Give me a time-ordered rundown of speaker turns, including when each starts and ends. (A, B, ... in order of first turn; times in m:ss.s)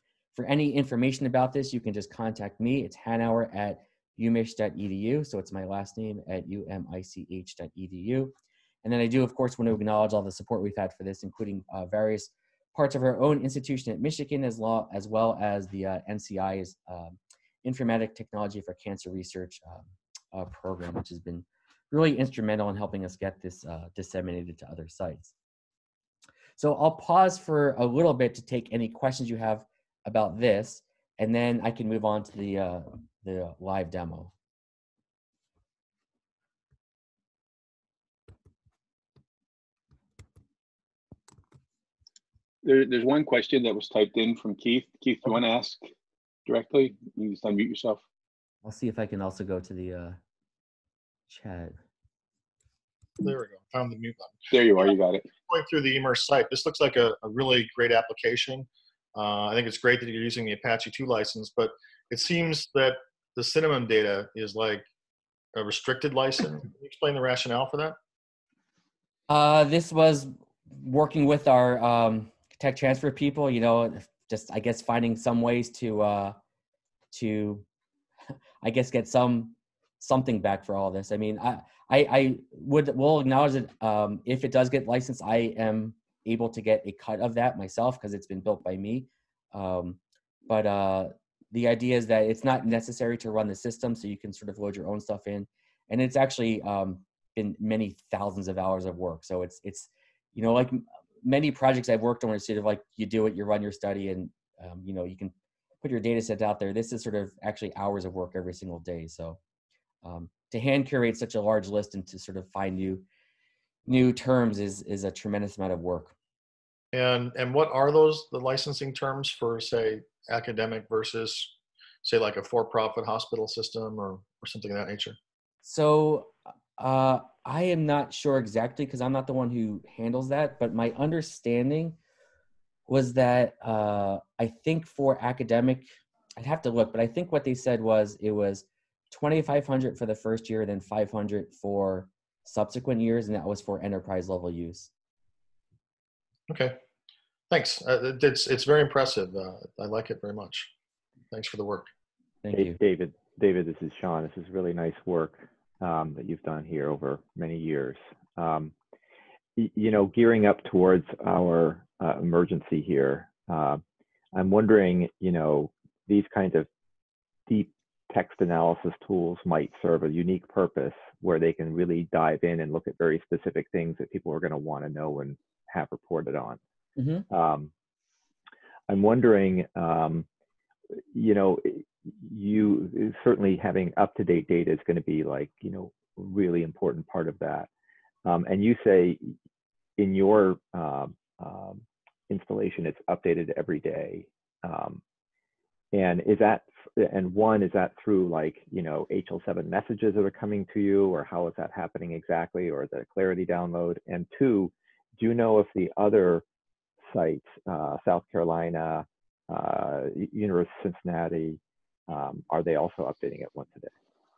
0:00.3-0:25.3 A
0:26.6-0:34.3 A
0:42.6-0:45.8 B
0:46.5-0:48.0 B
0:48.6-0:50.2 A
0:51.3-0:51.8 A
0:53.2-0:54.4 C
0:54.5-0:55.3 B
0:55.5-1:04.9 C
1:05.5-1:08.0 C
1:09.3-1:16.4 A
1:17.1-1:17.7 A
1:18.6-1:49.4 A
1:50.0-1:53.1 A
1:53.9-1:56.2 A
1:56.9-2:05.2 C
2:05.6-2:12.0 A
2:12.9-2:24.9 A
2:26.5-2:26.8 C
2:27.5-2:30.7 C
2:31.3-2:31.9 C
2:32.4-2:32.8 A
2:32.5-2:38.7 D
2:39.6-2:43.8 D
2:44.3-2:46.7 D
2:47.5-2:56.6 D
2:57.0-2:57.2 A
2:57.3-2:57.7 D
2:58.9-3:00.3 D
3:01.1-3:07.7 D
3:08.2-3:09.3 D
3:10.0-3:15.0 D
3:15.9-3:26.4 D
3:27.1-3:33.9 D